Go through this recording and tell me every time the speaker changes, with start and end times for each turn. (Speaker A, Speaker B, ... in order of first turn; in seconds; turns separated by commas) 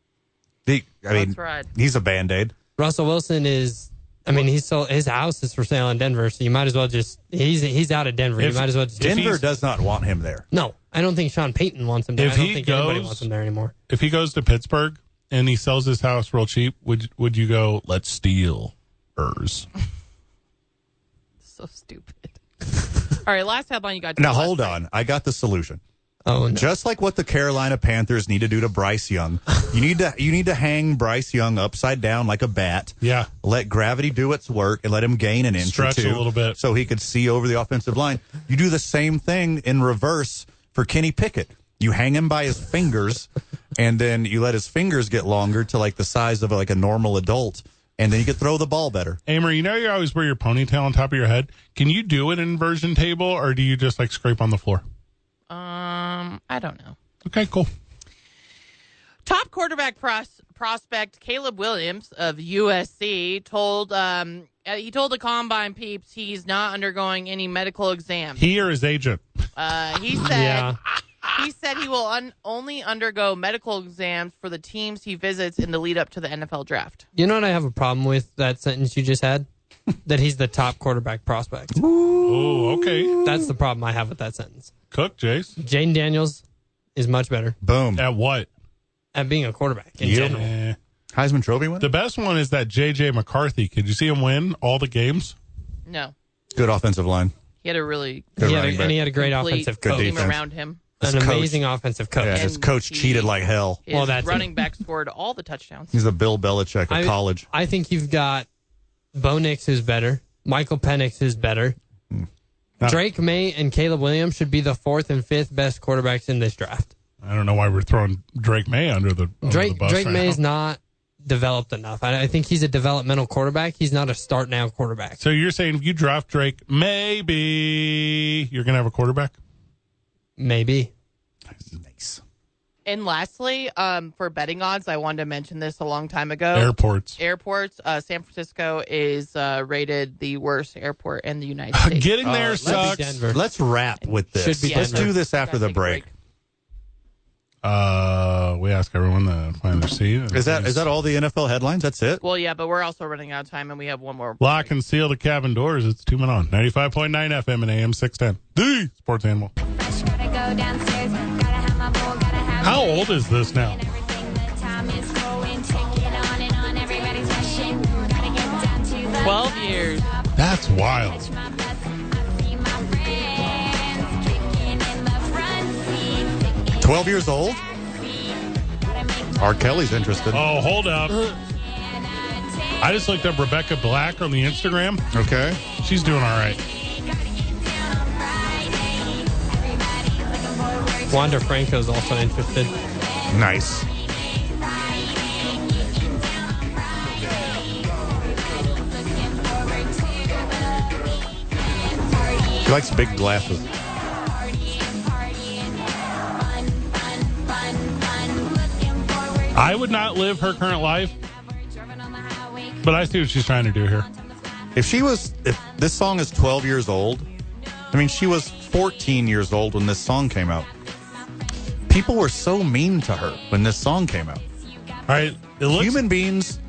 Speaker A: 0.7-2.5, Speaker B: 1.1-1.7, Speaker C: 2.8-9.4, Speaker D: 8.4-9.4, Speaker A: 9.0-10.4, Speaker C: 10.5-13.7, Speaker D: 12.2-13.3, Speaker D: 13.9-19.7, Speaker B: 21.4-22.4, Speaker B: 23.1-24.8, Speaker A: 24.2-25.8, Speaker C: 26.2-26.7, Speaker A: 26.5-49.2, Speaker D: 33.0-33.3, Speaker D: 35.6-36.6, Speaker D: 49.3-54.8, Speaker B: 55.5-57.0, Speaker D: 57.3-57.7, Speaker B: 59.3-68.5, Speaker D: 68.4-69.2, Speaker B: 69.5-70.8, Speaker C: 70.3-70.8, Speaker B: 71.3-77.0, Speaker C: 77.2-79.5, Speaker C: 80.0-81.8, Speaker A: 81.7-83.5, Speaker D: 82.2-83.2, Speaker C: 83.2-84.7, Speaker D: 84.9-85.5, Speaker C: 85.6-86.4, Speaker C: 87.0-87.6, Speaker A: 87.6-88.1, Speaker D: 88.0-88.5, Speaker C: 89.1-90.5, Speaker A: 90.0-90.5, Speaker D: 90.1-90.8, Speaker A: 91.1-91.9, Speaker D: 91.8-95.4, Speaker B: 95.9-96.1, Speaker A: 96.5-97.3, Speaker B: 97.6-98.4, Speaker A: 98.4-99.0, Speaker C: 98.4-100.3, Speaker B: 99.0-101.0, Speaker A: 99.8-100.4, Speaker A: 101.0-101.6, Speaker C: 101.0-102.5, Speaker A: 102.2-103.8, Speaker B: 102.3-103.3, Speaker B: 103.8-106.0, Speaker C: 103.9-104.5, Speaker A: 105.9-107.5, Speaker C: 106.9-108.5, Speaker C: 109.1-111.8, Speaker C: 112.8-116.9, Speaker D: 117.2-120.4, Speaker C: 119.4-125.2, Speaker D: 125.2-129.3, Speaker C: 130.4-130.9, Speaker A: 131.5-132.2, Speaker B: 132.9-142.1, Speaker D: 136.5-137.2, Speaker D: 141.7-143.2, Speaker A: 142.2-146.0, Speaker C: 142.6-143.4, Speaker C: 144.3-145.2, Speaker B: 144.6-146.1, Speaker D: 147.6-150.9, Speaker A: 150.3-152.2, Speaker B: 152.2-154.7, Speaker D: 154.4-159.5, Speaker E: 159.8-177.1, Speaker D: 162.6-163.8, Speaker B: 169.2-170.1, Speaker D: 170.4-171.3, Speaker A: 176.8-177.6, Speaker E: 178.0-180.0, Speaker A: 179.4-180.4, Speaker D: 180.3-181.3, Speaker E: 181.4-183.0, Speaker D: 182.8-185.0, Speaker A: 185.1-185.6, Speaker D: 185.8-186.6, Speaker E: 186.7-191.6, Speaker C: 191.1-192.7, Speaker E: 192.8-201.1, Speaker A: 193.3-193.8, Speaker E: 201.9-209.7, Speaker A: 202.6-203.7, Speaker D: 209.6-211.1, Speaker E: 211.2-213.1, Speaker D: 212.8-214.1, Speaker E: 214.0-214.9, Speaker A: 214.7-217.3, Speaker E: 215.6-215.8, Speaker E: 217.8-218.2, Speaker A: 217.9-220.7, Speaker A: 221.9-224.4, Speaker E: 224.6-225.5, Speaker D: 225.1-226.0, Speaker A: 225.7-226.6